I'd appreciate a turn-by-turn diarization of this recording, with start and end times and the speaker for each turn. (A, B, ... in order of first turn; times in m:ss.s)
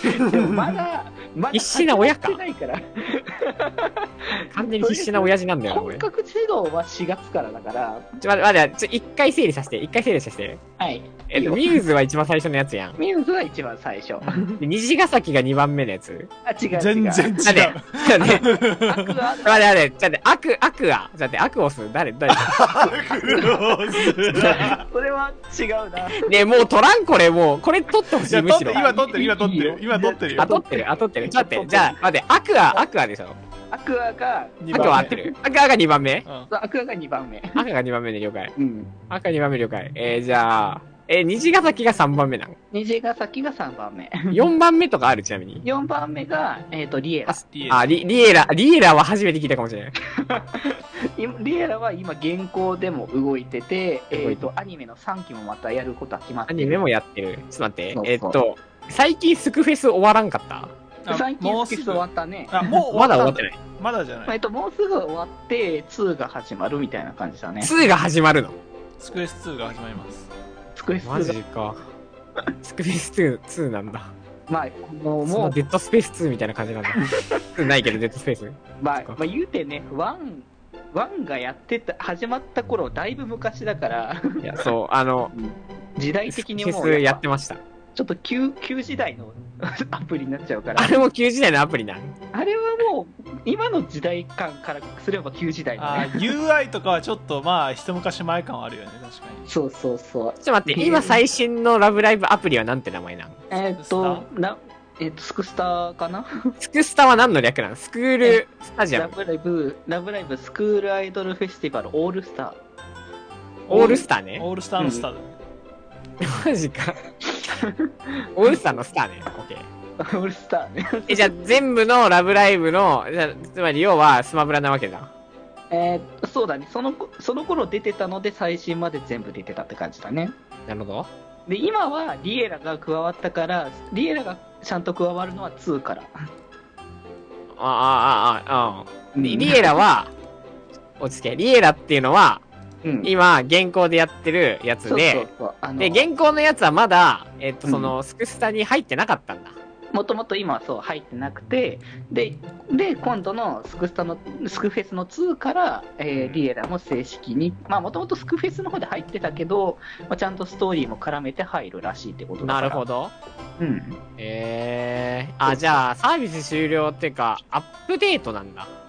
0:00.2-0:08.0 A
0:00.5-0:00.8 B
0:01.5-0:02.4 C
0:04.5-0:06.0 C
0:08.2-0:10.6 C
0:10.8-0:11.6 A
0:11.3-0:13.0 C
0:13.0-0:14.6 A
0:14.2-0:14.5 B
0:14.6-0:16.3 C
0:16.4-0:17.3 A
0:16.7-0:19.1 B
0:17.4-0:18.4 C
0:18.8-0:19.7 A
0:19.4-0:22.7 C
0:22.3-0:24.8 B
0:24.2-0:26.4 A
0:26.2-0:28.8 C
0:28.2-0:30.6 B
0:28.7-0:32.0 A
0:30.4-0:33.4 C
0:33.7-0:35.2 A
0:34.6-0:35.2 B
0:34.7-0:36.2 C
0:36.2-0:36.5 B
0:36.5-0:37.6 A
0:37.5-0:38.5 C
0:38.6-0:38.9 A
0:39.1-0:42.6 C
0:42.7-0:44.3 A
0:44.3-0:45.6 C
0:45.6-0:47.4 A
0:47.3-0:48.0 B
0:47.7-0:49.9 C
0:50.3-0:56.8 A
0:54.1-0:54.4 C
0:56.5-1:00.7 C
0:57.9-0:58.4 A
1:01.0-1:04.4 B
1:01.1-1:02.6 A
1:02.9-1:03.6 C
1:04.2-1:07.7 A
1:07.6-1:08.6 C
1:09.0-1:10.3 B
1:10.7-1:11.4 A
1:11.0-1:11.9 C
1:12.6-1:14.1 C
1:14.5-1:15.6 A
1:15.2-1:19.2 C
1:18.8-1:24.4 A
1:24.4-1:25.3 C
1:25.3-1:27.2 A
1:26.3-1:27.6 C
1:27.9-1:31.0 A
1:30.8-1:32.1 C
1:32.3-1:36.1 A
1:35.8-1:39.4 B
1:39.4-1:41.2 A
1:40.4-1:43.4 C
1:43.5-1:46.3 A
1:43.8-1:44.3 B
1:46.6-1:49.1 C
1:48.2-1:52.6 A
1:53.7-1:55.4 B
1:53.7-1:54.4 C
1:53.7-1:54.0 A
1:54.8-1:55.1 A
1:56.2-1:57.0 C
1:57.3-1:57.7 A
1:58.4-1:59.6 C
1:58.4-1:58.8 A
2:00.0-2:01.4 A
2:01.1-2:05.1 C
2:05.7-2:10.3 A
2:10.7-2:11.1 C
2:11.5-2:16.1 A
2:17.6-2:20.1 C
2:19.1-2:19.7 A
2:21.0-2:22.4 C
2:22.8-2:23.1 A
2:23.0-2:29.6 C
2:24.8-2:26.1 A
2:27.6-2:27.9 A
2:29.9-2:42.8 A
2:36.1-2:36.4 C
2:42.4-2:43.1 C
2:43.6-2:44.0 A
2:44.2-2:48.7 C